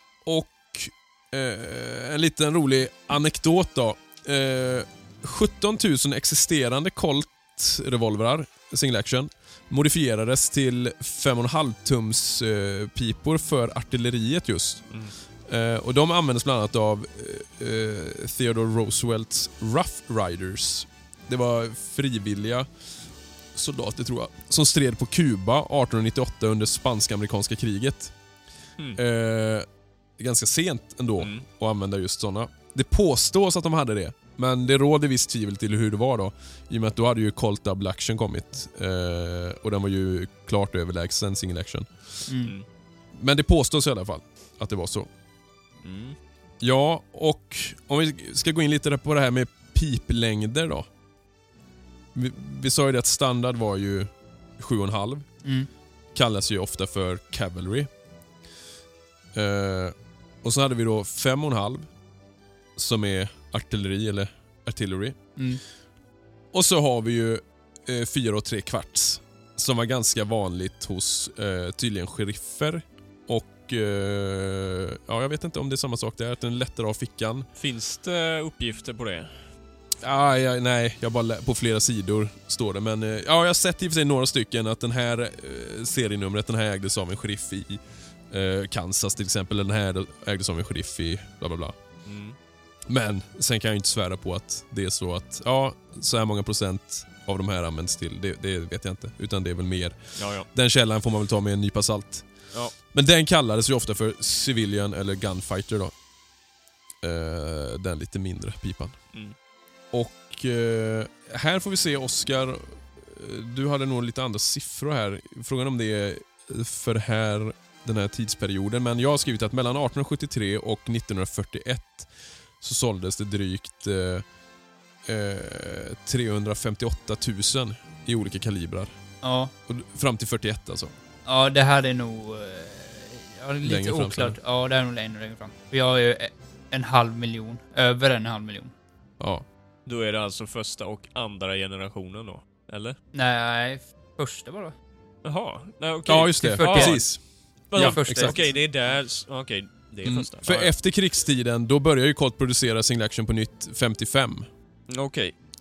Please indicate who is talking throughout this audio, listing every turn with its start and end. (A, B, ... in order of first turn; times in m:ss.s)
0:00.2-0:14.9 A
0:15.5-0:22.7 A
0:23.5-0:28.1 A
0:29.0-0:29.6 A
0:30.2-0:42.1 A
0:31.2-0:31.4 B
0:42.3-0:42.5 C
0:43.1-0:45.1 A
0:45.8-0:46.2 B
0:46.6-0:50.9 A
0:52.1-0:55.3 A
0:56.1-0:57.9 A
0:59.3-1:01.9 A
1:02.8-1:05.2 A
1:05.4-1:05.6 C
1:06.5-1:17.5 A
1:17.6-1:19.5 B
1:20.0-1:31.8 A
1:32.0-1:32.4 B
1:32.9-1:45.9 A
1:40.2-1:40.5 B
1:47.0-1:49.0 A
1:49.9-2:04.2 A
2:05.0-2:08.9 A
2:09.2-2:09.5 C
2:09.7-2:10.9 A
2:11.2-2:18.7 C
2:13.6-2:14.4 A
2:19.2-2:19.4 A
2:19.8-2:23.0 B
2:23.1-2:24.7 C
2:25.2-2:27.0 B
2:26.0-2:28.4 A
2:26.4-2:27.0 C
2:27.7-2:30.7 B
2:27.7-2:28.6 C
2:30.0-2:34.5 A
2:34.9-2:35.3 B